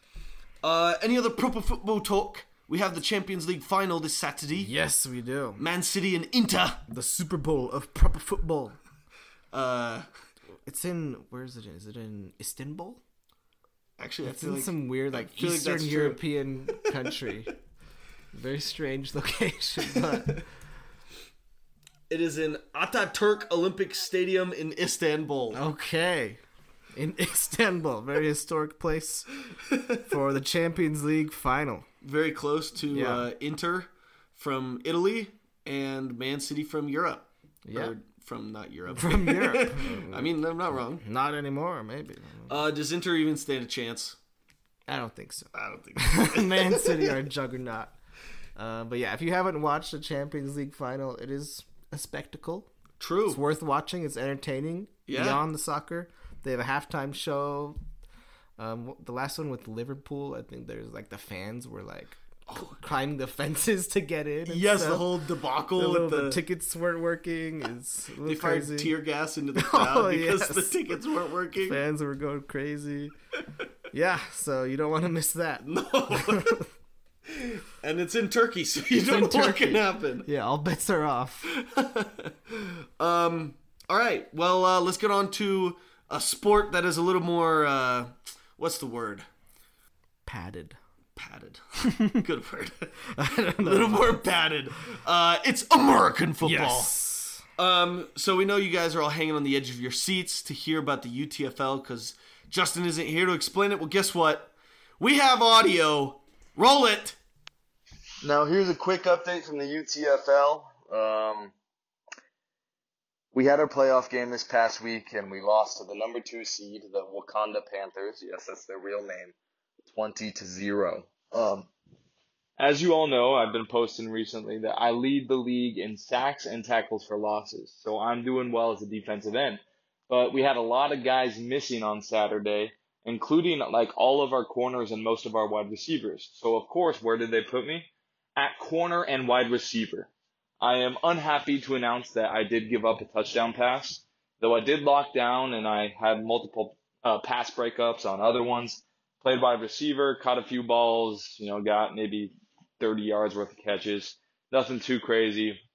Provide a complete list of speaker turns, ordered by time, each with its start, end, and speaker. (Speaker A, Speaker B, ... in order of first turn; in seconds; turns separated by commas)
Speaker A: 0.6-4.7, Speaker B: 4.6-5.6, Speaker A: 5.6-6.8, Speaker B: 6.9-8.8, Speaker A: 9.5-10.1, Speaker B: 10.6-13.0, Speaker A: 14.0-16.2, Speaker B: 14.2-17.5, Speaker B: 18.3-20.4, Speaker A: 22.1-25.6, Speaker B: 25.5-26.4, Speaker B: 26.9-29.3, Speaker A: 29.7-30.0, Speaker B: 30.1-31.9, Speaker A: 32.0-41.0, Speaker B: 32.9-33.2, Speaker B: 37.6-37.9, Speaker B: 38.9-40.4, Speaker B: 40.9-42.6, Speaker A: 42.5-44.2, Speaker B: 44.9-47.9, Speaker A: 45.5-47.2, Speaker B: 48.5-52.7, Speaker A: 53.0-53.4, Speaker B: 53.3-57.8, Speaker A: 55.1-55.4, Speaker B: 58.6-65.1, Speaker A: 62.5-62.8, Speaker A: 64.5-66.4, Speaker B: 65.7-68.9, Speaker A: 68.2-71.8, Speaker B: 69.5-71.0, Speaker B: 71.6-73.1, Speaker B: 73.9-76.7, Speaker A: 75.6-76.6, Speaker A: 77.3-80.3, Speaker B: 79.0-81.5, Speaker A: 81.5-89.3, Speaker B: 90.2-90.8, Speaker A: 91.2-93.0, Speaker B: 91.8-92.2, Speaker B: 93.1-94.2, Speaker A: 93.6-96.9, Speaker B: 96.4-97.4, Speaker A: 97.6-107.2, Speaker C: 108.2-111.5, Speaker C: 113.3-119.3, Speaker C: 119.8-121.7, Speaker C: 122.6-155.6